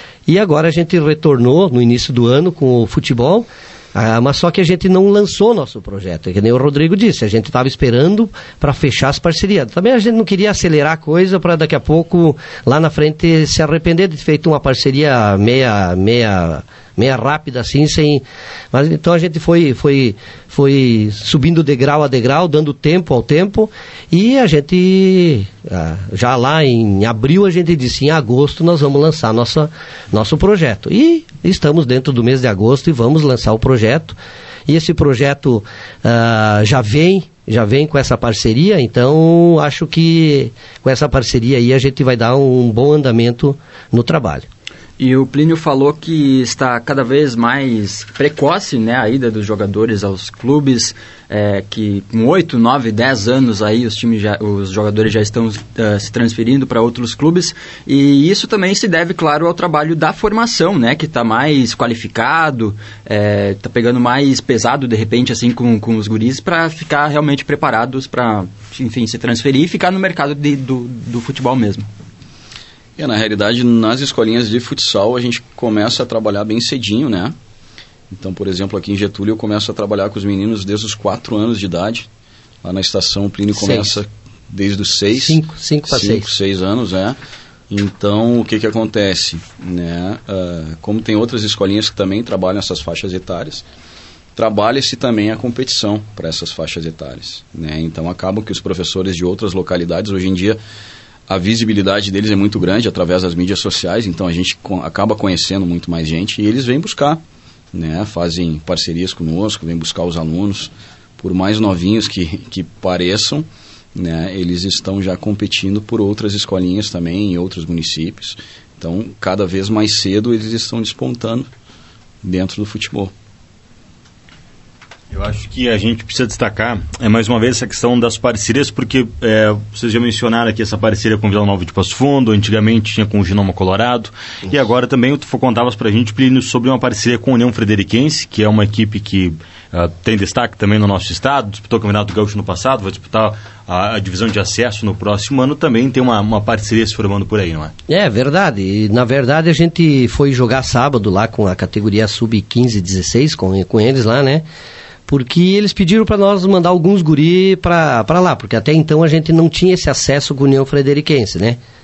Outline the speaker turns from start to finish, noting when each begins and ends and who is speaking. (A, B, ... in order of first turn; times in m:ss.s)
0:00.3-0:44.5 A
0:45.0-1:11.9 B
1:13.0-1:17.4 C
1:18.1-1:22.1 C
1:22.6-1:27.2 C
1:23.6-1:23.9 A
1:25.2-1:26.3 A
1:27.7-1:33.6 C
1:34.4-1:40.6 C
1:41.3-1:47.2 C
1:47.7-2:01.5 C
2:02.2-2:03.1 C
2:05.1-2:27.7 D
2:27.9-2:34.4 A
2:35.1-2:41.6 A